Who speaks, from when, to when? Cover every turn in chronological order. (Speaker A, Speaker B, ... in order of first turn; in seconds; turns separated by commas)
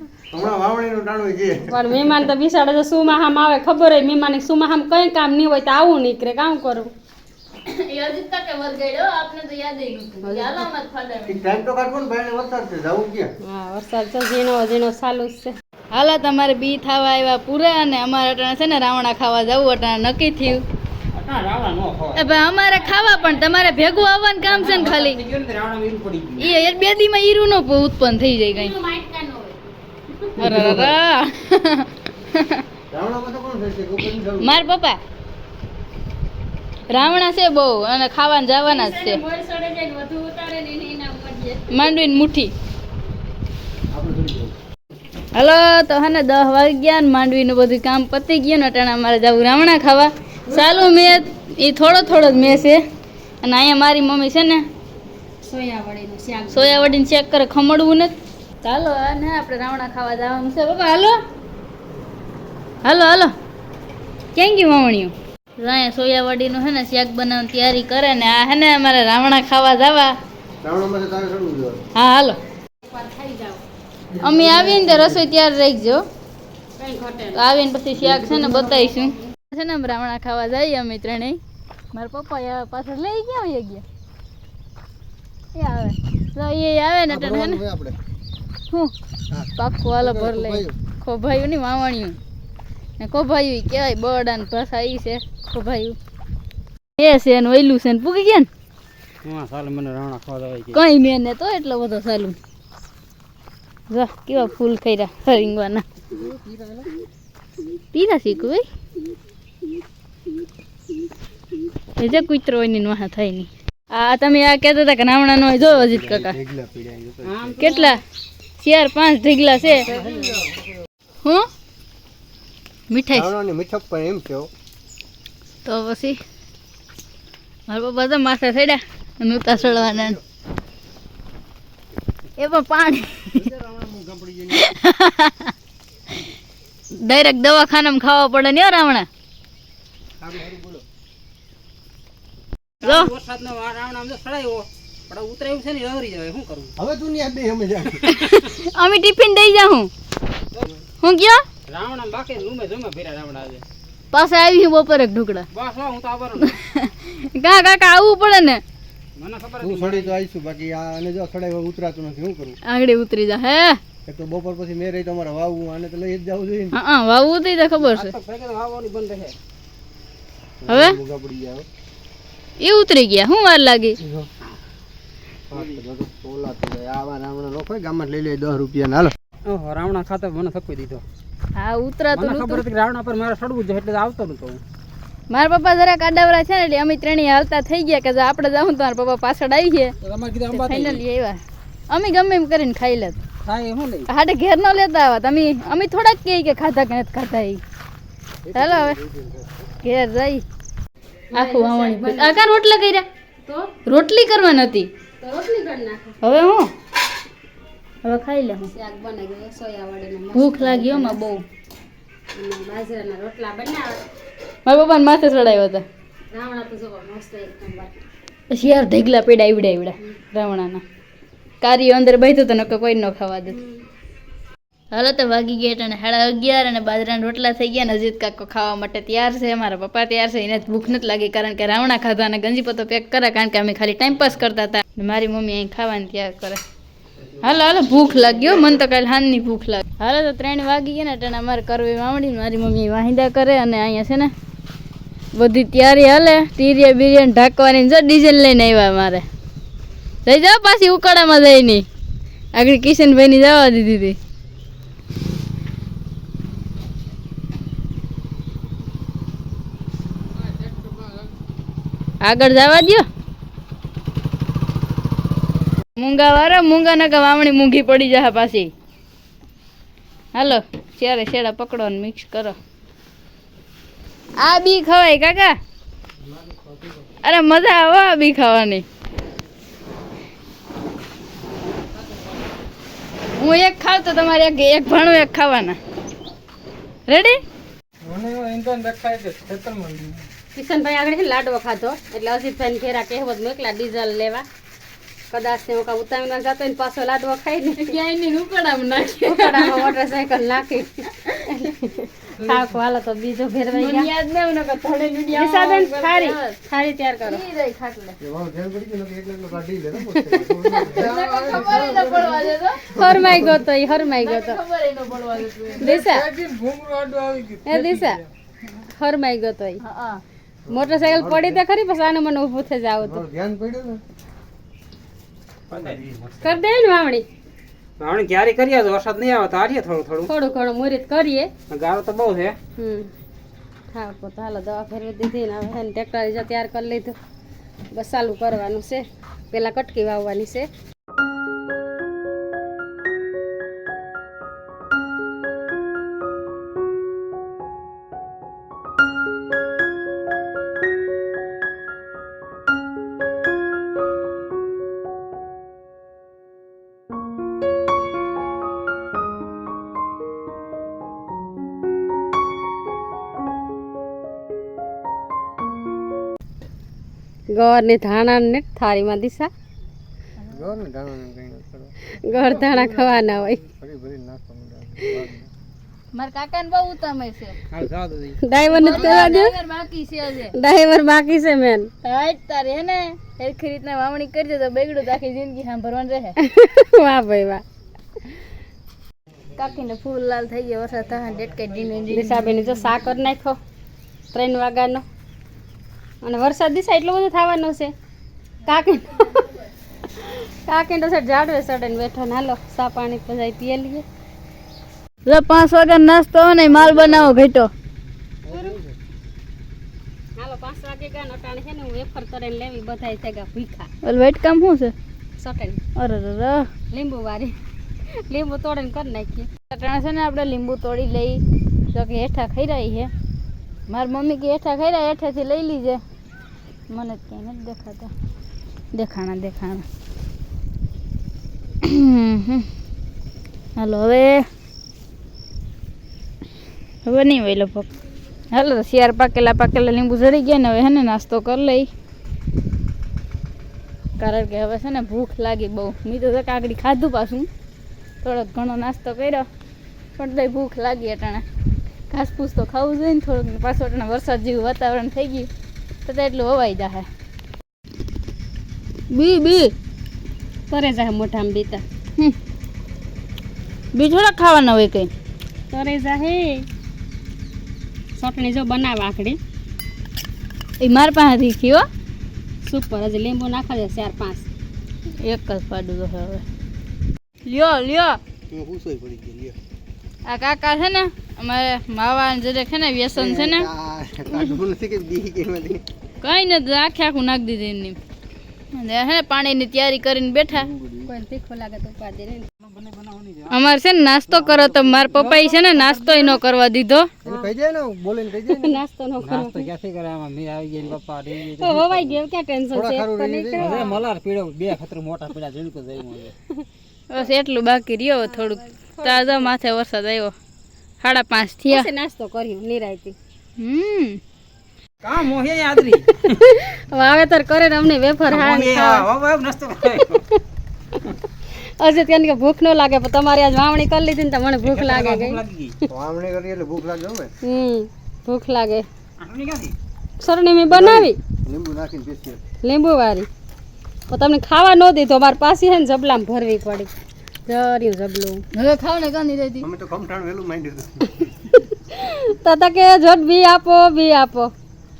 Speaker A: 0.3-1.9, Speaker B: 1.7-6.9, Speaker C: 7.7-11.4, Speaker B: 10.2-10.7, Speaker A: 11.3-13.3, Speaker B: 13.4-15.6, Speaker C: 15.9-20.6, Speaker D: 21.1-22.2, Speaker C: 22.1-25.2, Speaker D: 24.4-26.5, Speaker C: 26.4-28.8, Speaker B: 28.5-29.6, Speaker A: 30.4-30.9, Speaker C: 30.4-32.6, Speaker A: 32.9-34.6, Speaker C: 34.4-35.0, Speaker C: 36.9-39.2, Speaker B: 38.6-42.0, Speaker C: 41.7-42.5, Speaker A: 43.9-44.5, Speaker C: 45.3-52.8, Speaker B: 50.5-51.2, Speaker C: 53.4-54.6, Speaker B: 55.4-57.0, Speaker C: 56.5-61.2, Speaker C: 62.8-63.3, Speaker C: 64.3-70.1, Speaker A: 70.6-71.8, Speaker C: 71.9-72.4, Speaker B: 72.8-73.6, Speaker A: 74.1-75.2, Speaker C: 74.2-76.0, Speaker B: 76.8-77.4, Speaker C: 77.3-81.4, Speaker A: 78.0-78.6, Speaker B: 78.3-79.1, Speaker C: 81.9-83.8, Speaker C: 85.5-87.6, Speaker A: 87.1-88.0, Speaker A: 89.3-90.8, Speaker C: 89.5-92.2, Speaker C: 93.0-96.0, Speaker C: 97.0-98.5, Speaker D: 99.2-100.8, Speaker C: 100.7-102.3, Speaker C: 103.9-105.8, Speaker A: 106.1-106.9, Speaker C: 107.9-108.6, Speaker C: 112.0-116.4, Speaker A: 115.5-117.6, Speaker D: 117.2-118.0, Speaker C: 117.6-118.0, Speaker C: 118.6-119.9, Speaker D: 119.8-120.4, Speaker A: 119.9-120.4, Speaker C: 122.9-123.3, Speaker A: 123.1-124.5, Speaker C: 125.6-126.2, Speaker C: 127.7-130.2, Speaker A: 129.5-130.2, Speaker C: 132.4-133.4, Speaker A: 133.3-134.6, Speaker C: 134.5-135.5, Speaker C: 137.0-139.1, Speaker A: 140.2-140.8, Speaker D: 142.8-146.7, Speaker C: 142.8-143.1, Speaker A: 146.8-148.1, Speaker C: 148.1-149.9, Speaker D: 150.5-150.8, Speaker C: 151.0-151.4, Speaker D: 151.7-153.6, Speaker C: 154.1-155.5, Speaker D: 155.5-156.6, Speaker C: 156.4-158.6, Speaker D: 159.2-160.1, Speaker A: 159.6-162.6, Speaker C: 162.6-163.8, Speaker A: 164.1-166.7, Speaker C: 166.7-168.1, Speaker D: 167.8-169.3, Speaker A: 170.6-171.7, Speaker C: 170.7-171.0, Speaker C: 172.6-174.0, Speaker A: 174.0-174.3, Speaker A: 175.5-179.1, Speaker D: 179.5-181.0, Speaker C: 181.5-182.6, Speaker D: 182.1-184.6, Speaker C: 185.3-189.9, Speaker D: 190.0-191.0, Speaker C: 190.5-193.2, Speaker D: 193.4-194.1, Speaker C: 194.1-197.6, Speaker A: 198.4-199.6, Speaker C: 198.5-199.0, Speaker C: 199.8-200.4, Speaker B: 201.3-202.4, Speaker C: 201.3-203.0, Speaker B: 203.4-203.7, Speaker C: 203.8-204.9, Speaker B: 205.2-206.2, Speaker C: 206.2-206.7, Speaker C: 208.0-208.7, Speaker B: 208.7-211.2, Speaker C: 210.3-211.4, Speaker B: 212.3-214.0, Speaker C: 214.7-215.8, Speaker B: 216.3-218.0, Speaker C: 218.5-220.8, Speaker C: 221.6-223.6, Speaker C: 224.9-236.6, Speaker C: 237.4-244.3, Speaker C: 245.3-249.2, Speaker C: 250.2-251.8, Speaker C: 252.5-254.2, Speaker C: 262.2-263.1, Speaker C: 266.0-268.7, Speaker C: 270.3-272.6, Speaker C: 274.4-275.6, Speaker C: 277.2-278.8, Speaker C: 283.4-285.8, Speaker C: 287.1-287.4, Speaker D: 288.0-290.3, Speaker B: 290.5-294.4, Speaker B: 295.3-297.9, Speaker C: 297.8-299.9, Speaker B: 299.2-304.1, Speaker C: 303.7-306.6, Speaker B: 305.3-307.4, Speaker C: 307.2-308.2, Speaker A: 308.2-313.6, Speaker B: 310.1-311.1, Speaker C: 310.7-313.2, Speaker B: 312.9-314.6, Speaker C: 314.1-315.9, Speaker B: 315.8-316.3, Speaker D: 315.9-318.2, Speaker B: 317.6-318.2, Speaker B: 318.8-319.8, Speaker C: 319.8-320.2, Speaker A: 320.6-321.6, Speaker B: 320.7-323.2, Speaker A: 323.0-324.0, Speaker D: 325.7-326.6, Speaker B: 326.4-327.2, Speaker D: 328.0-330.3, Speaker B: 330.2-331.5, Speaker D: 331.7-332.6, Speaker B: 332.8-333.1, Speaker B: 333.9-337.1, Speaker B: 337.9-340.7, Speaker B: 367.5-369.5, Speaker C: 370.4-370.7, Speaker A: 370.5-375.5, Speaker B: 372.2-373.6, Speaker C: 376.1-377.6, Speaker D: 377.7-379.0, Speaker B: 378.4-379.6, Speaker C: 378.7-380.5, Speaker B: 380.5-381.9, Speaker C: 382.0-386.4, Speaker B: 386.4-387.6, Speaker C: 389.6-392.5, Speaker B: 392.1-393.6, Speaker B: 394.3-395.0, Speaker B: 396.2-397.9, Speaker B: 398.6-399.5, Speaker B: 400.1-404.0, Speaker C: 405.2-407.7, Speaker B: 406.8-407.3, Speaker A: 408.4-408.9, Speaker B: 408.5-408.8, Speaker B: 410.4-413.9, Speaker C: 414.0-414.9, Speaker B: 415.4-415.8, Speaker C: 415.9-416.7, Speaker B: 416.9-417.5, Speaker B: 418.2-419.5, Speaker C: 419.7-423.1, Speaker C: 423.9-426.0, Speaker C: 426.9-428.1, Speaker C: 428.9-429.8, Speaker C: 431.8-432.7, Speaker C: 433.8-434.4, Speaker C: 437.0-437.9, Speaker C: 438.5-441.9, Speaker C: 444.2-447.5, Speaker C: 448.2-449.4, Speaker C: 450.2-451.4, Speaker C: 452.1-455.5, Speaker C: 456.0-457.1, Speaker C: 459.1-459.7, Speaker B: 460.7-461.8, Speaker C: 463.9-465.1, Speaker B: 465.7-466.6, Speaker B: 468.2-469.4, Speaker C: 470.8-471.8, Speaker B: 472.6-474.5, Speaker C: 475.2-476.4, Speaker C: 477.4-478.2, Speaker A: 478.5-479.6, Speaker C: 480.3-483.7, Speaker A: 483.1-485.8, Speaker C: 486.2-487.9, Speaker C: 488.7-490.7, Speaker A: 490.5-491.1, Speaker B: 491.1-492.5, Speaker D: 492.6-493.7, Speaker C: 493.5-497.1, Speaker D: 494.4-496.4, Speaker A: 497.2-498.8, Speaker B: 497.2-497.5, Speaker B: 498.4-499.6, Speaker D: 499.2-502.2, Speaker B: 501.4-504.0, Speaker A: 502.7-503.9, Speaker D: 503.5-506.3, Speaker C: 507.1-510.3, Speaker B: 508.2-509.5, Speaker C: 511.0-511.9, Speaker B: 511.6-513.1, Speaker C: 513.6-514.2, Speaker D: 515.0-516.4, Speaker B: 516.2-519.1, Speaker D: 518.2-520.2, Speaker B: 521.5-525.4, Speaker D: 524.6-525.8, Speaker A: 525.9-527.3, Speaker B: 527.4-528.9, Speaker D: 529.2-529.7, Speaker B: 530.2-531.2, Speaker A: 530.7-532.4, Speaker B: 532.6-533.3, Speaker B: 534.1-536.9, Speaker B: 537.5-538.4, Speaker C: 538.5-539.6, Speaker A: 539.6-541.1, Speaker B: 541.8-544.5